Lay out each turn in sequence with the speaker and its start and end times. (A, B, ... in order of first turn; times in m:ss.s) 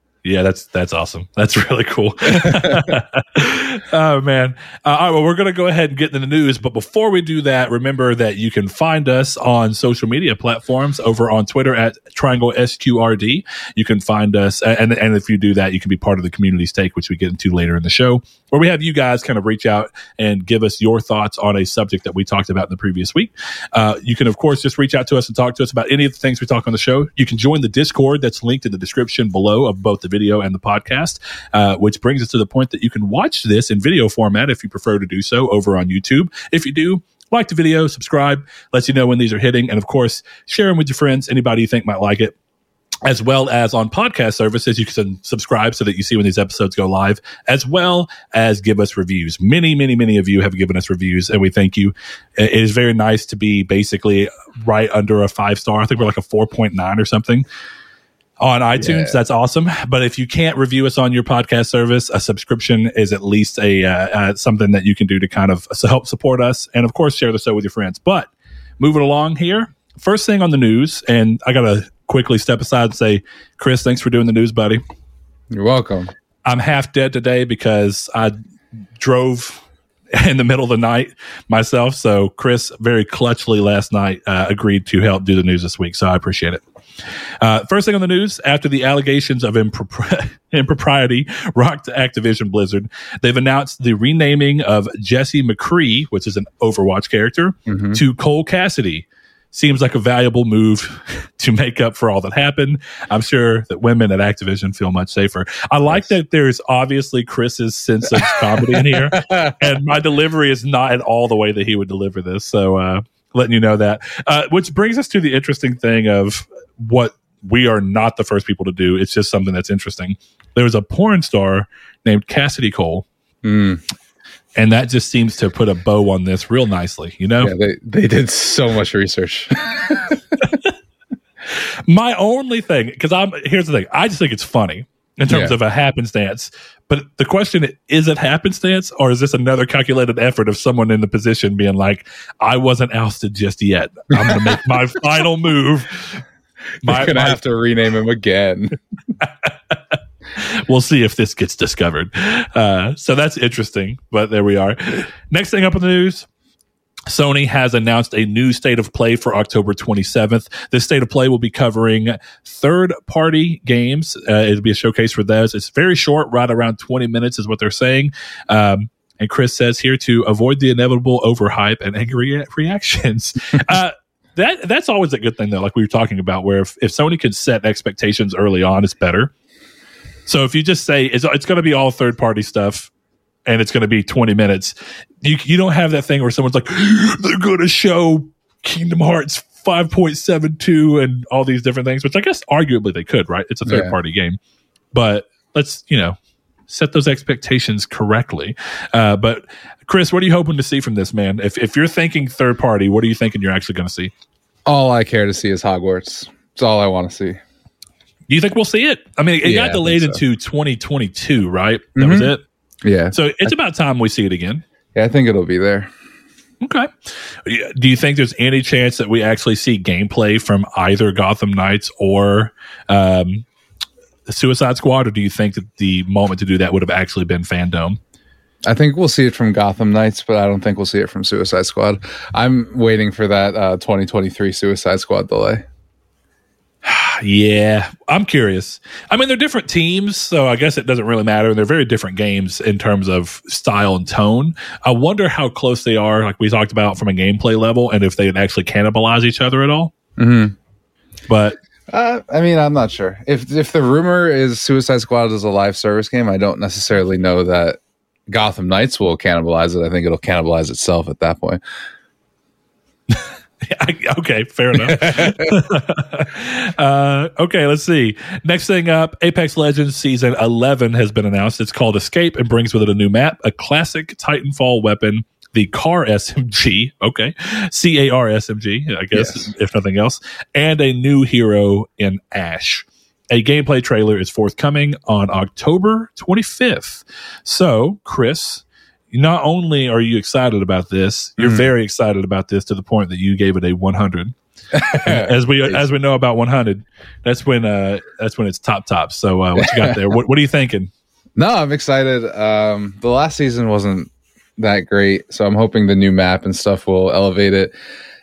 0:00.2-0:42.3 A
0:02.2-0:03.0 B
0:43.0-0:57.4 A
0:58.4-1:14.8 A
0:58.8-0:59.2 B
1:15.5-1:16.1 B
1:16.4-1:18.3 A
1:19.0-1:19.6 A
1:20.1-1:26.6 A
1:27.4-2:03.0 A
1:37.7-1:38.0 B
1:48.6-1:49.6 B
2:03.4-2:03.8 B
2:04.6-2:07.5 A
2:07.4-2:10.6 B
2:11.9-2:26.2 A
2:15.3-2:15.6 B
2:24.1-2:24.6 B
2:26.8-2:27.4 A
2:26.8-2:28.8 B
2:29.2-2:29.8 A
2:30.4-2:36.3 A
2:37.1-2:59.3 A
3:00.2-3:02.9 A
3:03.4-3:14.4 A
3:13.6-3:13.9 B
3:14.9-3:16.2 A
3:16.7-3:24.1 A
3:24.6-3:27.4 B
3:28.3-3:32.4 A
3:29.4-3:30.2 B
3:32.0-3:32.3 B
3:32.8-3:33.5 B
3:33.1-3:34.6 A
3:34.9-3:35.9 B
3:36.6-3:36.9 A
3:37.4-3:43.4 A
3:44.3-3:48.0 A
3:48.6-3:55.6 B
3:56.8-4:09.9 A
4:10.2-4:10.6 B
4:11.3-4:11.6 A
4:11.9-4:21.6 B
4:23.1-4:54.3 A
4:24.8-4:25.5 B
4:39.1-4:39.5 B
4:51.4-4:51.6 B
4:54.7-4:55.8 B
4:55.0-5:00.9 A
4:59.6-5:00.0 B
5:01.4-5:07.7 B